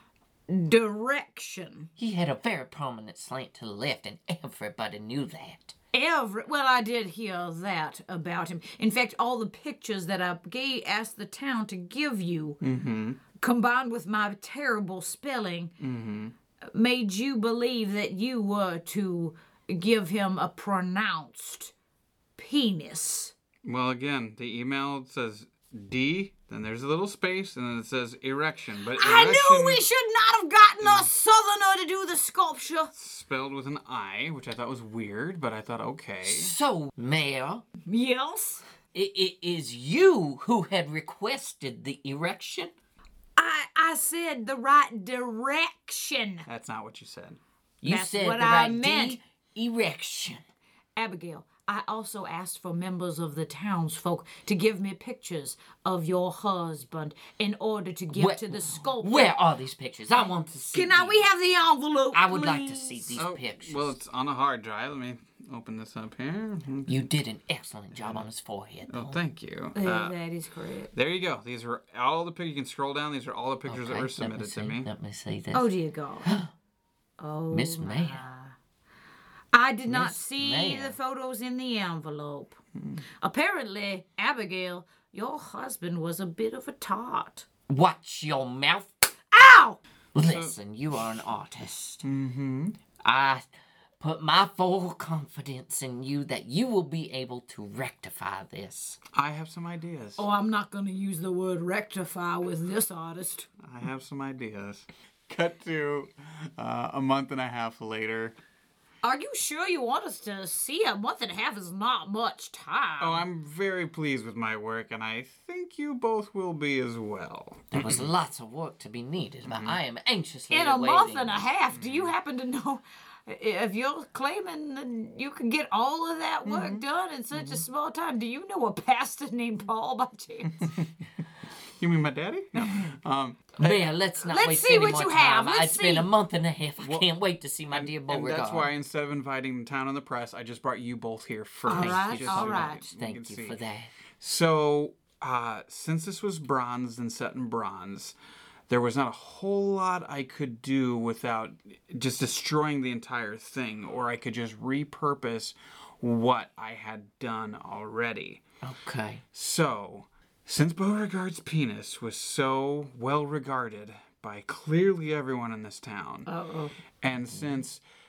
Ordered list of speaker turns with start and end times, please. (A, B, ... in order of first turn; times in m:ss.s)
0:00.5-0:01.9 A
0:02.0-0:05.7 B
0:05.9-0:12.6 A
0:12.6-0:13.2 C
0:13.4-0:15.7 A
0:15.8-0:16.3 C
0:16.7-0:21.7 A
0:22.4-0:23.3 A
0:23.6-0:29.8 C
0:29.0-0:32.9 A
0:30.8-0:31.1 C
0:32.9-0:36.6 C
0:36.2-0:37.6 B
0:37.9-0:38.6 A
0:38.9-0:42.7 B
0:43.4-0:46.5 A
0:46.5-0:47.4 C
0:47.8-0:50.4 B
0:47.9-0:49.2 A
0:51.0-0:59.4 A
0:58.1-1:01.3 B
1:00.7-1:03.2 A
1:02.1-1:04.0 B
1:03.2-1:07.1 C
1:06.9-1:09.2 B
1:07.9-1:08.3 C
1:08.9-1:10.2 C
1:09.8-1:10.9 A
1:10.9-1:14.9 C
1:13.7-1:15.7 B
1:15.5-1:16.4 A
1:16.2-1:16.5 B
1:17.2-1:18.6 A
1:17.5-1:18.2 B
1:19.5-1:22.6 A
1:19.9-1:21.0 B
1:22.8-1:23.0 C
1:23.2-1:27.5 A
1:27.7-1:28.9 B
1:29.3-1:29.8 A
1:30.2-1:32.0 B
1:30.2-1:30.6 C
1:32.0-1:32.8 C
1:33.0-1:33.5 B
1:34.0-1:39.0 B
1:39.1-1:40.2 C
1:40.2-1:43.5 A
1:43.6-1:48.4 C
1:49.0-1:53.2 A
1:53.0-1:58.1 C
1:57.7-2:01.4 B
1:59.5-1:59.8 C
2:00.5-2:10.7 A
2:01.7-2:02.2 C
2:06.5-2:06.8 C
2:07.4-2:07.6 C
2:10.6-2:10.9 C
2:11.8-2:13.9 C
2:13.6-2:18.7 B
2:14.2-2:16.1 A
2:16.8-2:17.1 C
2:17.7-2:23.6 C
2:21.7-2:22.8 A
2:21.7-2:23.9 B
2:24.2-2:28.2 C
2:28.7-2:38.4 C
2:38.6-2:39.2 B
2:39.3-2:46.3 C
2:46.3-2:46.8 A
2:47.0-2:47.8 C
2:47.3-2:47.6 B